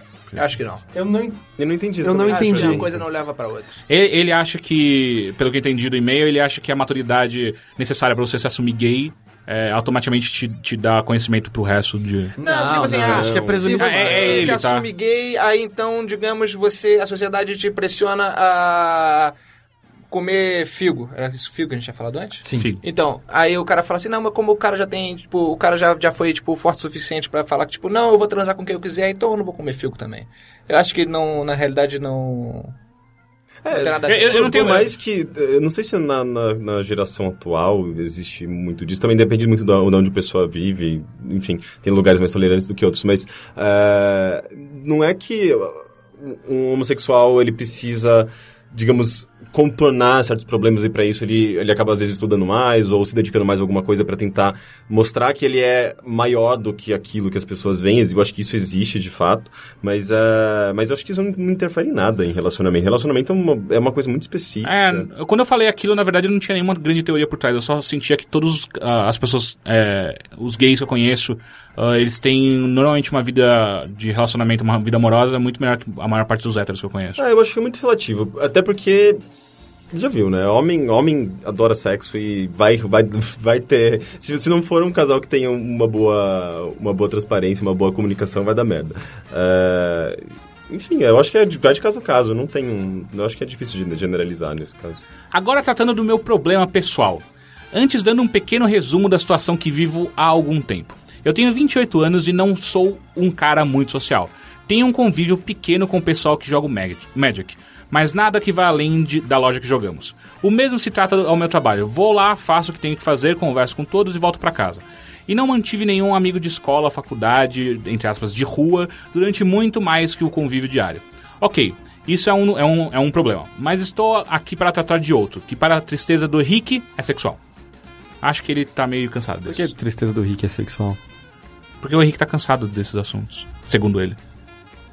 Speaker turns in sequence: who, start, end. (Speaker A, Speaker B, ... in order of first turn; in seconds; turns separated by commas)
Speaker A: 0.3-0.8, Speaker B: 0.9-1.4, Speaker C: 1.6-2.9, Speaker B: 2.0-2.9, Speaker A: 2.2-3.8, Speaker D: 3.9-12.3, Speaker B: 12.4-14.6, Speaker A: 12.4-19.3, Speaker C: 12.8-14.5, Speaker D: 13.8-14.8, Speaker A: 20.1-32.7, Speaker B: 22.4-22.7, Speaker D: 22.5-22.8, Speaker C: 33.6-65.1, Speaker A: 33.7-34.9, Speaker D: 34.1-34.9, Speaker D: 64.6-77.2, Speaker C: 77.2-79.2, Speaker C: 79.9-95.0, Speaker D: 95.3-127.4, Speaker D: 128.2-129.7, Speaker B: 129.4-131.0, Speaker D: 131.8-134.2